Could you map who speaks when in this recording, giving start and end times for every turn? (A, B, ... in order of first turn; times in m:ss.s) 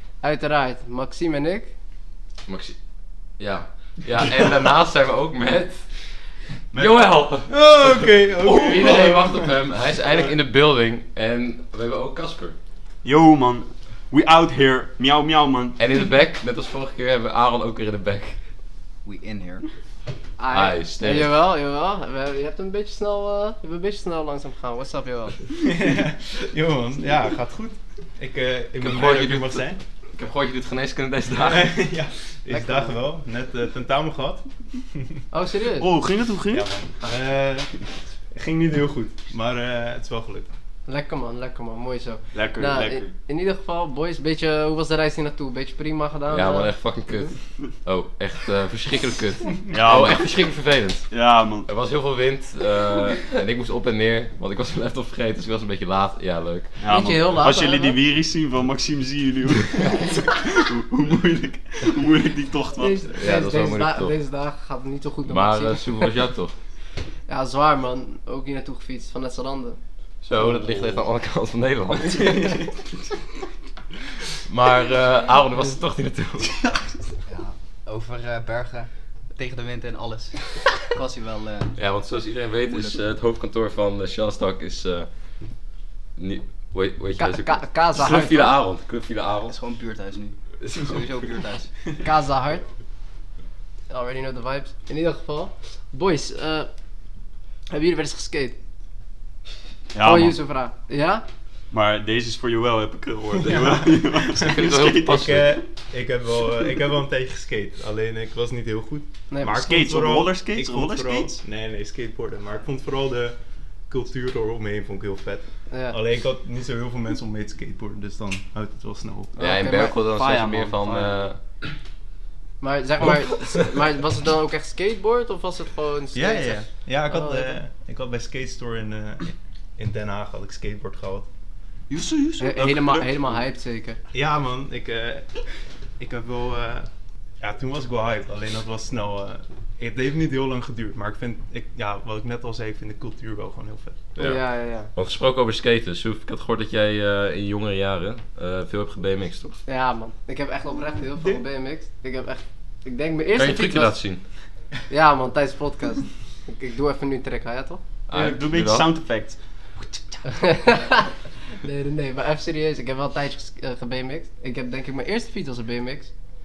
0:00.2-0:01.7 A
0:02.5-0:02.7 B
0:03.4-0:05.9 B
0:06.7-0:07.1 C
0:06.7-0:12.5 B
0:07.5-0:09.6 D
0:13.0-0:15.8 C
0:15.8-0:18.4 B
0:19.0-0:19.7 E
0:20.4-0:25.4 A
0:20.5-0:21.3 B
0:25.6-0:29.8 D
0:28.8-0:31.7 B
0:31.3-0:35.1 D
0:32.5-0:33.0 A
0:35.3-0:35.9 A
0:35.8-0:36.7 C
0:36.5-0:37.7 D
0:38.3-0:40.5 D
0:40.9-0:46.7 A
0:42.3-0:43.1 C
0:46.3-0:51.1 B
0:49.7-0:50.3 C
0:51.1-0:51.7 C
0:51.6-0:56.8 B
0:56.8-1:03.2 C
0:56.9-0:58.0 A
1:02.8-1:06.1 A
1:03.1-1:04.1 B
1:05.2-1:06.5 B
1:07.3-1:09.8 A
1:10.2-1:12.6 B
1:14.4-1:16.7 B
1:17.3-1:21.7 E
1:21.7-1:25.6 B
1:22.7-1:23.0 E
1:26.2-1:29.6 B
1:27.2-1:28.5 A
1:29.6-1:31.7 E
1:32.0-1:32.6 A
1:33.9-1:36.7 A
1:37.7-1:38.6 A
1:39.9-1:40.4 C
1:40.0-1:41.2 A
1:41.7-1:45.6 C
1:44.4-1:45.6 B
1:44.8-1:53.4 D
1:49.4-1:51.4 C
1:53.9-1:59.3 D
1:55.7-1:56.0 A
1:59.4-2:01.2 A
1:59.4-2:01.4 B
2:02.6-2:07.6 A
2:06.1-2:11.3 D
2:11.9-2:13.4 C
2:12.4-2:14.0 A
2:14.1-2:15.3 D
2:16.0-2:16.9 D
2:17.4-2:24.3 D
2:24.2-2:24.9 A
2:24.9-2:29.6 B
2:29.6-2:34.0 A
2:33.3-2:34.2 B
2:34.9-2:37.8 A
2:38.1-2:38.9 B
2:38.1-2:40.2 C
2:40.2-2:46.1 A